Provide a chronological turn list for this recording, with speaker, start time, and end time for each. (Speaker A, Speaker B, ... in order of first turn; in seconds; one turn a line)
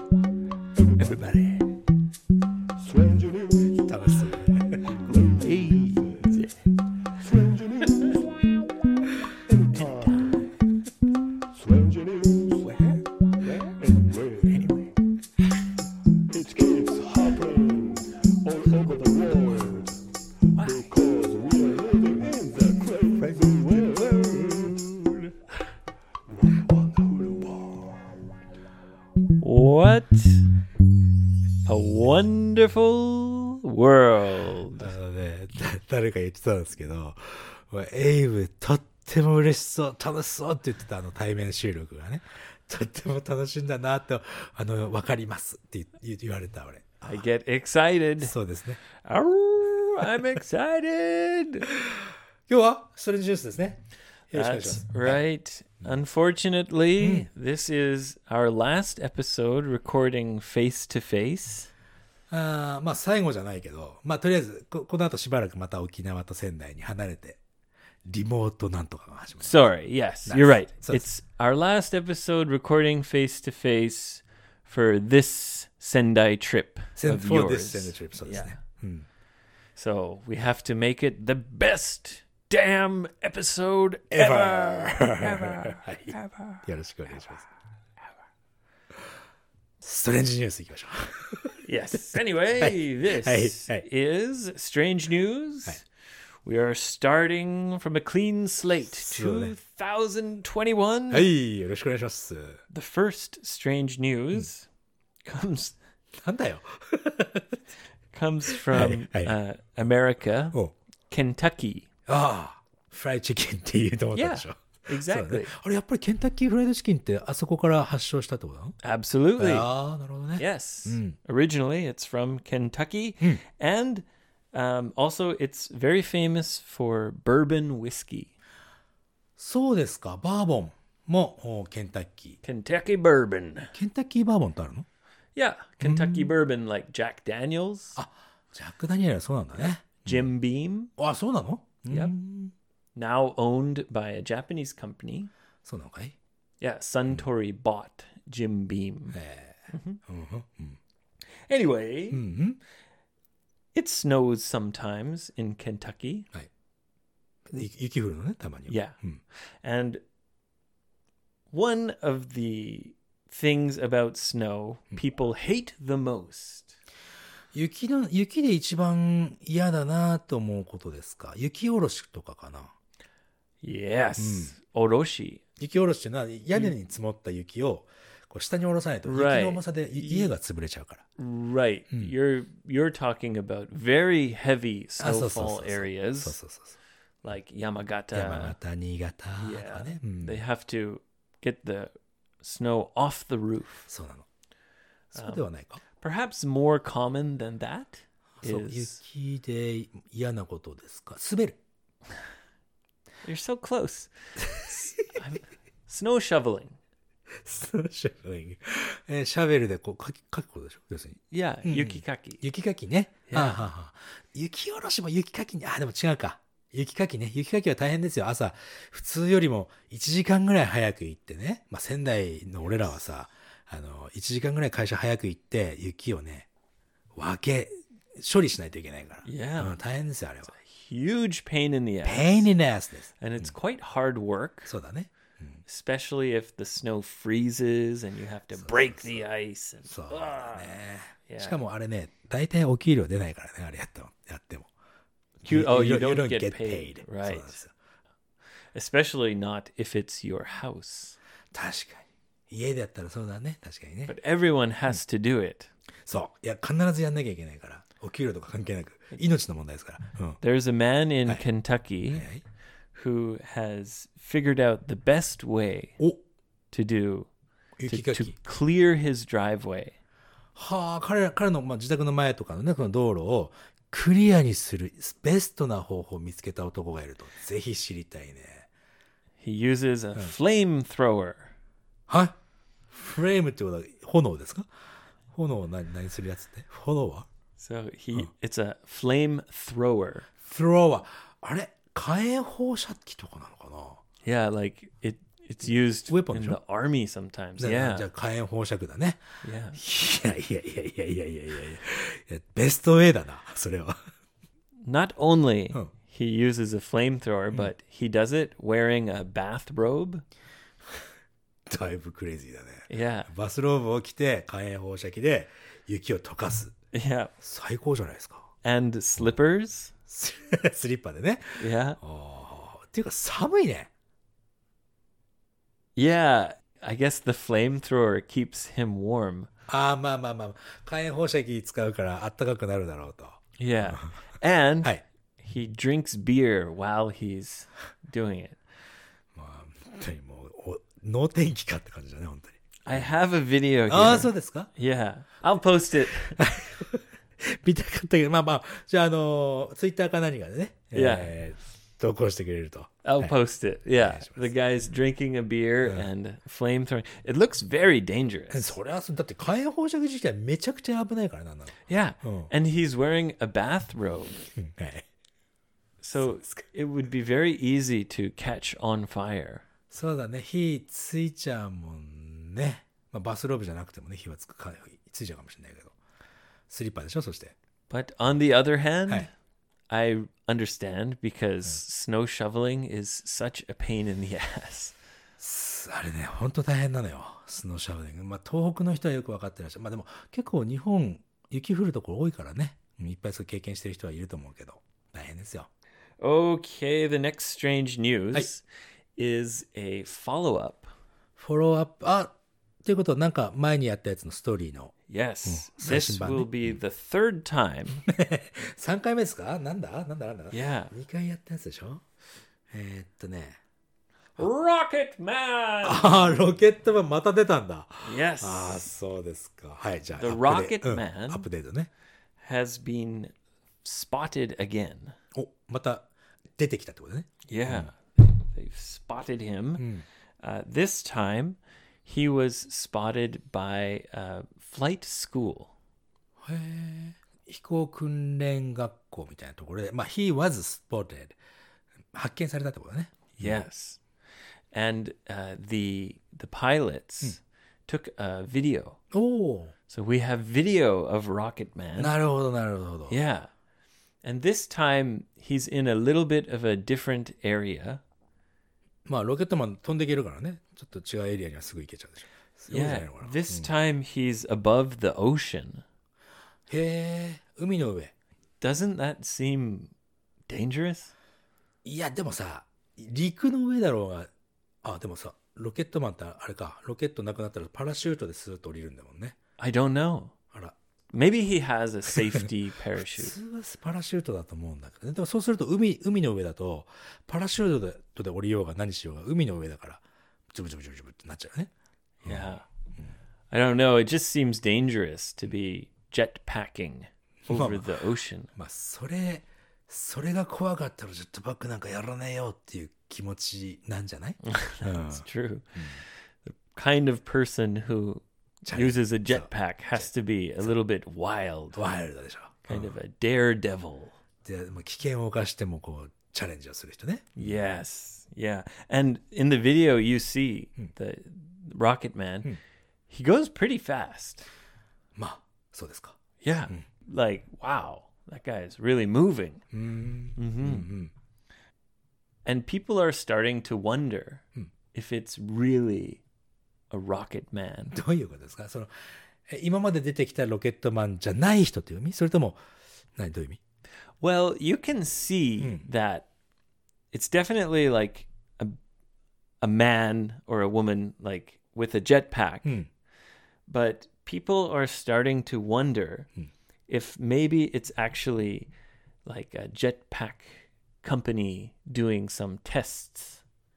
Speaker A: 0.8-1.1
Speaker B: 1.0-1.6
Speaker A: 2.8-3.9
Speaker B: 3.9-6.1
Speaker A: 5.0-6.4
Speaker A: 7.2-8.2
Speaker A: 9.5-10.3
Speaker C: 9.8-10.4
Speaker A: 11.5-12.7
Speaker B: 12.6-13.0
Speaker A: 13.6-14.7
Speaker B: 14.5-14.9
Speaker A: 16.3-20.0
Speaker A: 20.5-25.0
Speaker A: 26.3-27.9
Speaker C: 29.4-30.4
Speaker C: 31.6-34.9
Speaker B: 34.8-47.2
Speaker C: 47.1-48.3
Speaker B: 48.2-48.8
Speaker C: 49.0-51.7
Speaker B: 51.8-55.2
Speaker C: 54.3-61.7
Speaker B: 57.0-57.3
Speaker B: 62.3-67.4
Speaker B: 68.0-69.7
Speaker C: 69.4-78.6
Speaker B: 70.2-71.0
Speaker B: 77.0-79.0
Speaker C: 79.8-86.6
Speaker B: 84.1-87.5
Speaker B: 89.8-91.6
Speaker C: 91.6-95.8
Speaker B: 92.1-93.8
Speaker C: 96.5-101.3
Speaker B: 98.9-99.5
Speaker B: 101.1-102.6
Speaker C: 102.7-104.7
Speaker C: 105.2-105.8
Speaker B: 106.2-107.6
Speaker C: 108.1-110.6
Speaker B: 108.5-109.3
Speaker C: 111.1-111.9
Speaker B: 112.1-118.8
Speaker C: 114.1-115.5
Speaker C: 118.8-119.7
Speaker B: 119.4-121.2
Speaker C: 120.4-128.3
Speaker B: 129.4-132.4
Speaker C: 132.4-133.7
Speaker B: 133.7-134.8
Speaker C: 135.3-138.0
Speaker B: 135.8-136.3
Speaker B: 137.9-140.3
Speaker C: 139.6-140.9
Speaker B: 141.0-142.5
Speaker C: 141.9-142.1
Speaker C: 142.9-145.3
Speaker B: 145.6-146.2
Speaker C: 146.6-149.2
Speaker B: 149.1-150.8
Speaker C: 149.7-150.0
Speaker C: 151.5-152.2
Speaker B: 152.1-152.6
Speaker C: 153.7-156.3
Speaker B: 157.5-159.2
Speaker C: 158.7-159.0
Speaker C: 159.6-160.0
Speaker C: 161.5-166.7
Speaker B: 167.5-172.7
Speaker C: 173.6-175.4
Speaker B: 174.2-174.5
Speaker B: 175.6-181.1
Speaker C: 179.1-180.3
Speaker C: 181.2-186.4
Speaker B: 185.0-186.8
Speaker C: 187.2-188.6
Speaker B: 188.1-190.4
Speaker C: 189.4-193.9
Speaker B: 193.9-194.2
Speaker B: 195.1-195.8
Speaker C: 195.1-199.0
Speaker B: 198.4-201.6
Speaker C: 203.2-206.8
Speaker B: 207.4-226.5
Speaker C: 211.3-212.4
Speaker C: 213.3-213.6
Speaker B: 227.1-230.5
Speaker C: 229.2-229.8
Speaker C: 230.5-232.5
Speaker B: 232.0-233.5
Speaker C: 233.2-234.7
Speaker B: 234.7-235.6
Speaker C: 235.7-241.6
Speaker B: 238.6-239.2
Speaker B: 239.8-244.7
Speaker C: 245.4-247.6
Speaker B: 245.4-247.7
Speaker C: 248.7-251.2
Speaker B: 251.5-254.1
Speaker C: 254.1-255.7
Speaker B: 256.1-260.4
Speaker C: 260.4-262.2
Speaker B: 262.1-262.4
Speaker C: 262.9-266.0
Speaker C: 266.7-267.3
Speaker B: 267.8-268.3
Speaker C: 267.9-269.9
Speaker B: 270.5-278.7
Speaker C: 279.4-281.5
Speaker B: 282.1-282.4
Speaker B: 282.9-284.7
Speaker B: 285.3-287.3
Speaker C: 287.6-290.3
Speaker B: 290.4-294.0
Speaker C: 294.2-298.1
Speaker B: 296.1-296.6
Speaker B: 297.6-299.2
Speaker C: 299.4-299.8
Speaker B: 299.7-304.0
Speaker C: 304.8-310.2
Speaker B: 311.7-316.7
Speaker C: 312.9-313.3
Speaker C: 316.9-317.3
Speaker B: 317.4-318.5
Speaker C: 318.6-319.9
Speaker B: 320.1-323.9
Speaker C: 321.6-322.0
Speaker C: 325.9-329.5
Speaker B: 329.7-334.1
Speaker C: 333.6-338.6
Speaker B: 339.3-343.1
Speaker C: 342.9-346.4
Speaker B: 343.9-344.7
Speaker B: 346.4-353.3
Speaker C: 350.9-351.3
Speaker C: 353.0-358.8
Speaker B: 354.0-354.5
Speaker B: 358.5-362.5
Speaker C: 361.9-364.5
Speaker B: 364.6-365.1
Speaker C: 366.0-369.6
Speaker B: 366.2-366.6
Speaker B: 369.9-375.9
Speaker B: 376.7-377.5
Speaker C: 377.9-379.3
Speaker C: 379.9-384.9
Speaker B: 385.4-395.7
Speaker C: 396.2-398.6
Speaker C: 399.2-400.9
Speaker B: 401.4-404.9
Speaker C: 405.1-408.0
Speaker B: 405.4-406.8
Speaker B: 408.1-412.0
Speaker C: 410.5-410.9
Speaker B: 412.7-413.6
Speaker C: 414.4-416.3
Speaker B: 415.8-421.9
Speaker C: 418.0-418.9
Speaker C: 420.2-421.5
Speaker C: 422.4-423.3
Speaker C: 423.8-425.1
Speaker B: 425.3-427.9
Speaker C: 427.5-429.9
Speaker B: 429.8-430.0
Speaker C: 430.4-435.7
Speaker B: 436.4-441.4
Speaker B: 442.1-443.6
Speaker C: 443.4-444.0
Speaker C: 444.7-449.0
Speaker B: 449.1-449.7
Speaker C: 449.9-452.1
Speaker B: 452.0-453.2
Speaker C: 453.1-453.5
Speaker C: 454.2-458.0
Speaker B: 459.1-463.7
Speaker C: 462.7-465.8
Speaker B: 466.7-468.1
Speaker C: 468.6-469.9
Speaker C: 470.5-471.1
Speaker B: 471.8-474.3
Speaker B: 474.8-479.4
Speaker C: 479.6-480.3
Speaker C: 481.1-483.4
Speaker B: 483.1-491.7
Speaker C: 492.2-492.7
Speaker B: 492.2-493.1
Speaker C: 493.5-498.5
Speaker B: 497.4-497.9
Speaker B: 498.5-505.2
Speaker C: 504.4-511.8
Speaker B: 508.6-510.1
Speaker B: 511.7-513.0
Speaker C: 512.7-514.2
Speaker B: 514.4-517.5
Speaker C: 517.4-522.6
Speaker C: 523.1-524.4
Speaker B: 525.1-526.2
Speaker C: 526.4-529.6
Speaker B: 529.7-531.1
Speaker C: 530.4-530.9
Speaker C: 532.4-536.2
Speaker C: 536.9-538.0
Speaker B: 537.9-542.6
Speaker B: 543.1-543.6
Speaker C: 544.2-546.3
Speaker B: 545.6-545.8
Speaker C: 547.1-548.8
Speaker C: 549.6-552.8
Speaker C: 553.7-556.3
Speaker C: 556.9-558.7
Speaker C: 559.2-563.4